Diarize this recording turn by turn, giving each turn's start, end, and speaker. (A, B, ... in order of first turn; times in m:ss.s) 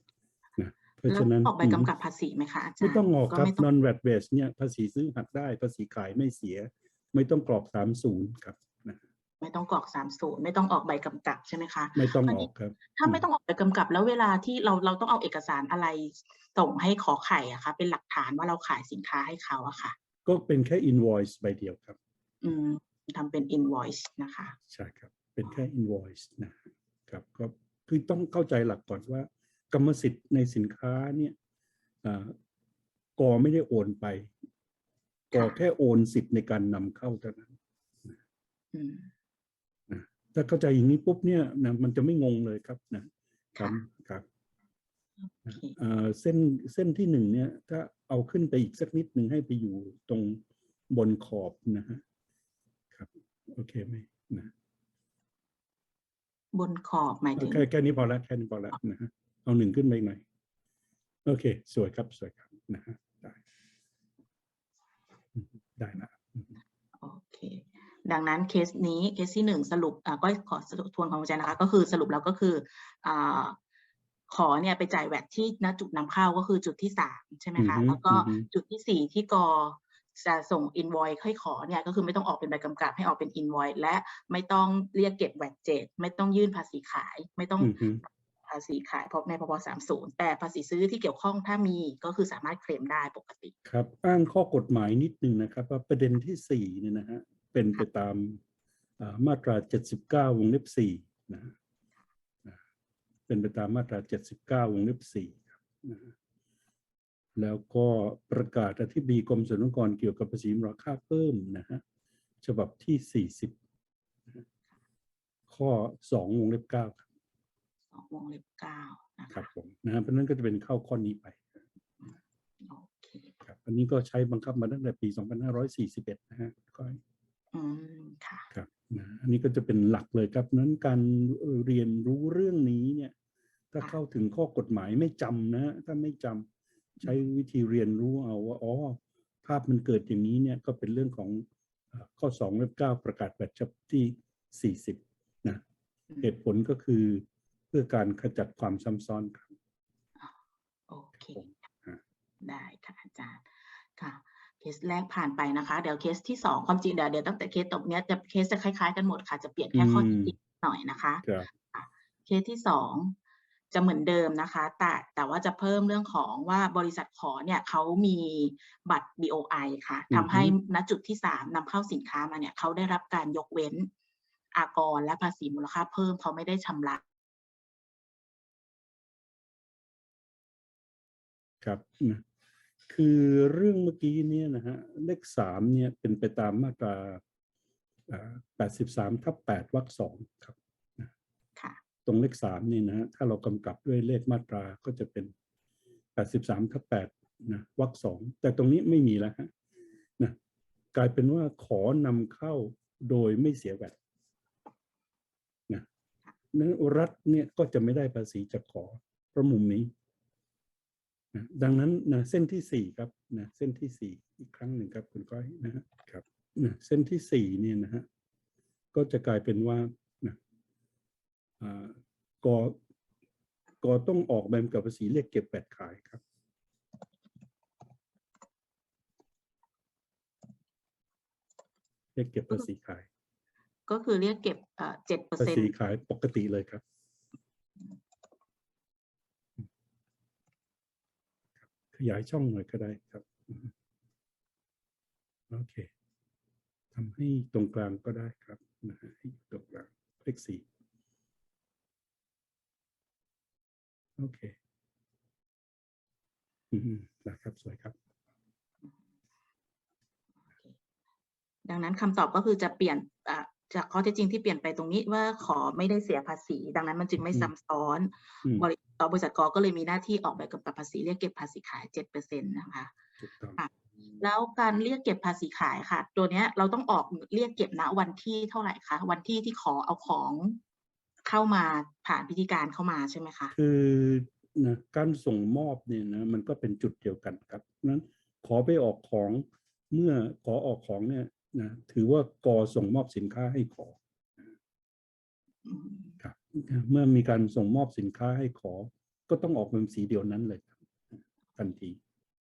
0:00.6-0:01.9 A
0:01.1-0:03.6 B
0:02.8-0:09.0 A
0:09.4-0:19.9 B
0:12.0-0:13.2 A
0:20.2-0:22.0 A
0:22.4-0:24.6 B
0:24.7-0:31.3 A
0:32.0-0:32.3 A
0:33.2-0:34.3 A
0:35.3-0:37.5 A
0:38.7-0:39.1 B
0:39.9-0:44.2 A
0:45.4-0:45.8 B
0:45.4-0:52.0 A
0:52.9-0:54.5 A
0:56.5-0:57.6 B
0:57.4-1:00.2 A
1:01.2-1:03.4 A
1:05.3-1:06.6 A
1:07.0-1:13.6 B
1:14.3-1:33.5 B
1:17.6-1:18.5 A
1:27.6-1:28.0 A
1:33.6-1:38.4 A
1:39.0-1:41.6 A
1:43.3-1:46.1 A
1:47.4-1:51.8 A
1:52.4-1:53.6 A
1:55.5-1:57.0 A
1:57.9-1:59.4 B
1:59.3-2:01.6 A
2:02.0-2:03.3 B
2:03.4-2:07.0 A
2:07.5-2:08.5 B
2:08.5-2:13.1 A
2:13.7-2:16.5 A
2:17.0-2:25.6 A
2:26.2-2:29.5 A
2:30.9-2:31.6 B
2:31.3-2:32.0 A
2:32.4-2:43.2 B
2:39.7-2:40.3 A
2:43.7-2:53.9 B
2:50.1-2:50.5 A
2:54.5-2:57.0 B
3:01.6-3:02.2 A
3:02.9-3:07.2 A
3:08.1-3:11.1 A
3:11.6-3:11.8 B
3:12.0-3:15.3 A
3:16.2-3:19.5 A
3:20.9-3:24.0 A
3:26.5-3:29.9 A
3:31.3-3:38.0 A
3:38.9-3:40.4 A
3:41.6-3:42.8 A
3:43.8-3:46.2 A
3:52.1-3:53.0 A
3:53.9-3:55.7 B
3:55.4-3:56.8 A
4:01.9-4:03.7 A
4:05.5-4:05.9 A
4:06.9-4:10.6 A
4:14.2-4:14.6 A
4:16.7-4:18.0 A
4:20.4-4:20.8 B
4:21.6-4:32.9 B
4:27.2-4:27.5 A
4:33.2-4:33.6 A
4:33.6-4:40.6 B
4:41.2-4:43.5 B
4:43.5-4:54.5 A
4:55.6-4:56.2 B
4:56.2-5:02.0 A